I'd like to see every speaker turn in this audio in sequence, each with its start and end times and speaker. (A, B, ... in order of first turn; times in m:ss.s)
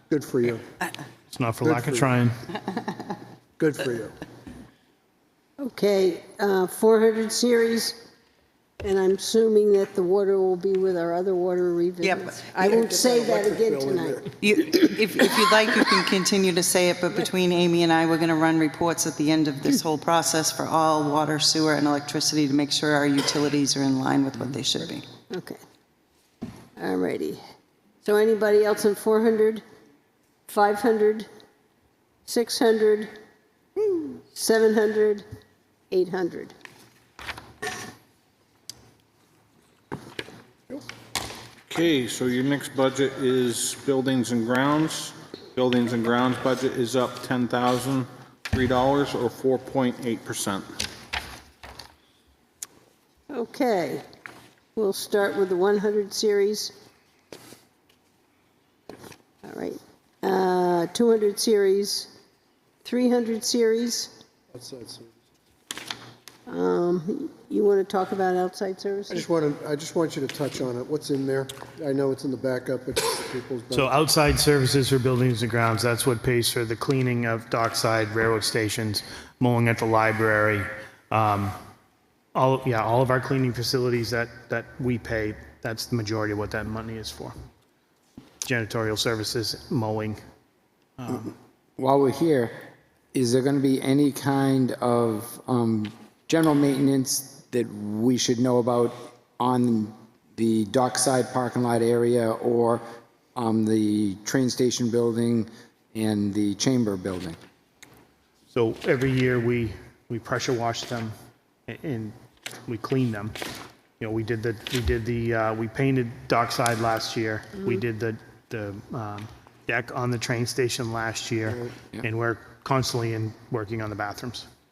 0:00.1-0:00.6 A
0:01.3-0:02.4 B
0:01.6-0:02.1 A
0:03.6-0:04.1 A
0:05.6-0:08.0 C
0:08.8-0:14.6 C
0:12.5-0:14.3 A
0:14.4-0:25.1 D
0:25.3-0:25.6 C
0:26.8-0:27.4 C
0:28.0-0:29.6 C
0:30.5-0:31.3 C
0:32.3-0:33.1 C
0:33.8-0:35.2 C
0:35.9-0:36.5 C
0:41.7-0:50.7 E
0:53.3-0:54.0 C
0:54.8-0:56.8 C
0:59.4-1:02.1 C
1:02.8-1:04.2 C
1:04.5-1:05.1 A
1:06.5-1:09.3 C
1:09.1-1:13.9 A
1:13.7-1:21.6 B
1:22.3-1:27.3 B
1:28.4-1:30.2 B
1:31.0-1:31.3 B
1:31.8-1:32.6 F
1:33.1-1:47.4 F
1:48.5-1:51.1 B
1:51.7-1:52.1 B
1:52.7-1:53.4 B
1:54.0-2:04.5 B